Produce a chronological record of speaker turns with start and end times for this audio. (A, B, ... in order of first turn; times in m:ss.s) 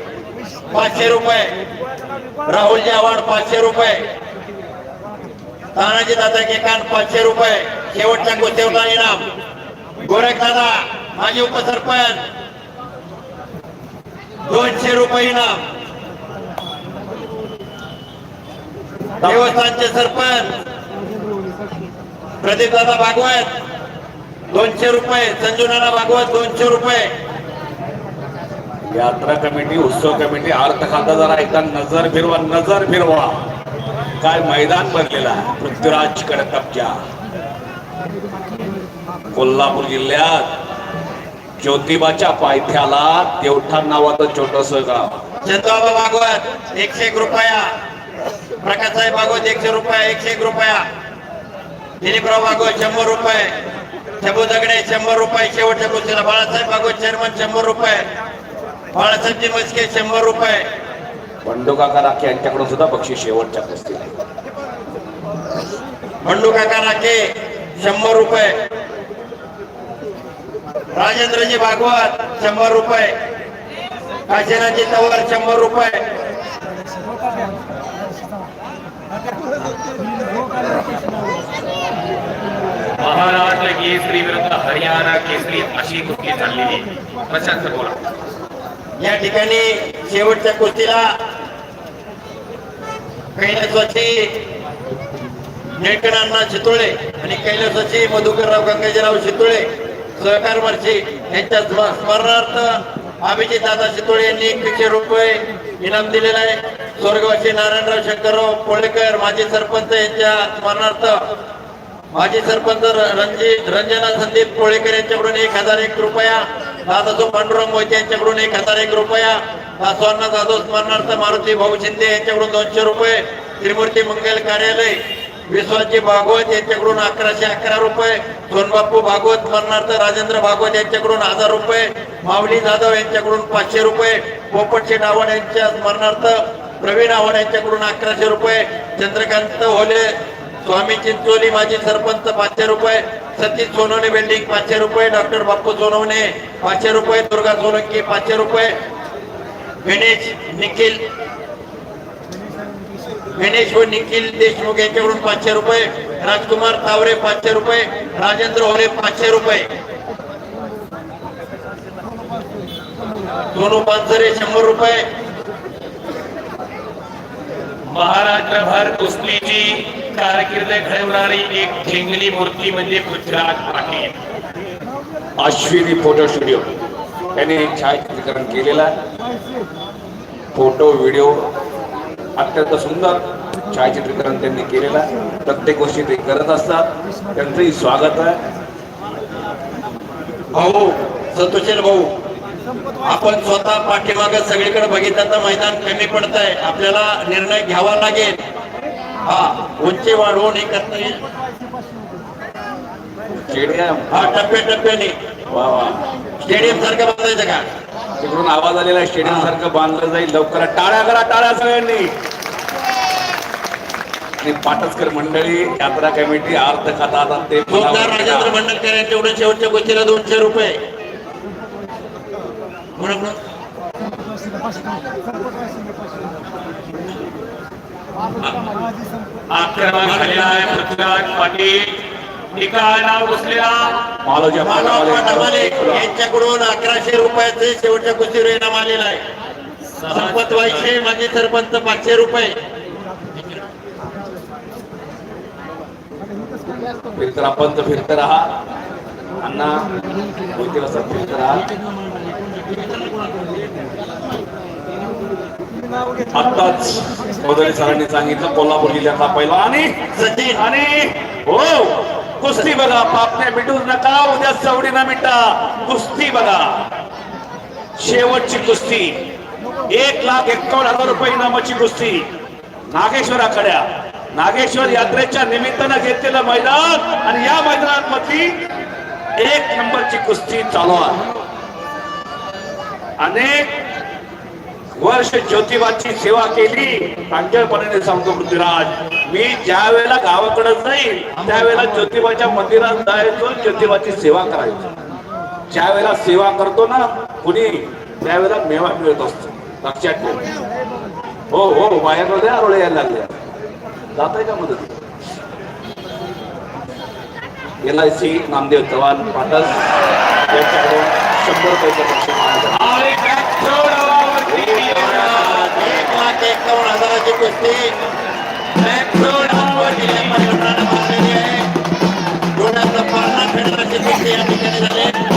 0:00.7-0:01.5 A
0:02.5-0:04.0 A
0:05.8-0:09.2 A
0:10.0-0:12.2 A
0:14.5-0:15.6 A
0:19.2-0:20.5 A
0:22.4-0:23.5 A
0:24.5-0:27.1 A
0:28.9-0:33.3 B
0:34.2-0:37.0 B
0:39.3-0:40.5 B
0:41.6-0:45.2 B
0:45.4-0:47.7 A
0:48.6-0:50.8 A
0:52.0-0:53.5 A
0:54.2-0:58.0 A
0:58.9-1:00.6 A
1:01.4-1:04.1 B
1:06.2-1:07.2 A
1:07.8-1:08.5 A
1:11.0-1:13.1 A
1:14.3-1:16.0 A
1:23.0-1:28.0 C
1:29.0-1:31.1 A
1:33.4-1:34.3 A
1:35.8-1:39.6 A
1:40.2-1:51.2 A
1:52.1-2:05.0 A
2:05.5-2:20.1 A
2:20.6-2:28.7 A
2:29.8-2:31.0 A
2:33.4-2:39.6 A
2:43.5-2:45.0 A
2:47.9-2:54.1 C
2:55.4-2:56.7 B
2:57.4-2:58.9 B
3:00.5-3:01.5 B
3:02.4-3:08.4 B
3:10.5-3:12.1 A
3:13.0-3:18.3 A
3:19.3-3:21.2 A
3:23.4-3:24.4 B
3:24.1-3:25.1 A
3:25.5-3:26.9 B
3:26.4-3:27.6 A
3:28.2-3:32.1 B
3:29.2-3:29.5 A
3:34.4-3:38.6 B
3:37.7-3:40.8 A
3:43.0-3:43.4 A
3:49.5-3:52.0 C
3:52.5-3:54.1 C
3:54.2-3:56.1 B
3:54.6-3:59.2 A
4:00.0-4:00.9 C
4:00.1-4:02.5 A
4:07.2-4:08.5 B
4:09.4-4:09.8 B
4:10.6-4:11.6 B
4:16.3-4:19.9 B
4:20.1-4:20.6 A
4:20.6-4:26.7 B
4:28.0-4:29.2 B
4:29.9-4:32.2 B
4:32.9-4:38.5 B
4:39.4-4:41.2 B
4:43.2-4:43.7 B
4:45.0-4:54.9 B
4:55.7-5:00.4 B
5:01.5-5:03.4 B
5:04.2-5:05.0 B
5:07.8-5:09.9 B
5:10.5-5:13.0 B
5:12.8-5:16.0 C
5:14.4-5:15.4 B
5:14.9-5:17.8 A
5:18.8-5:20.4 C
5:18.8-5:21.6 A
5:22.6-5:25.2 A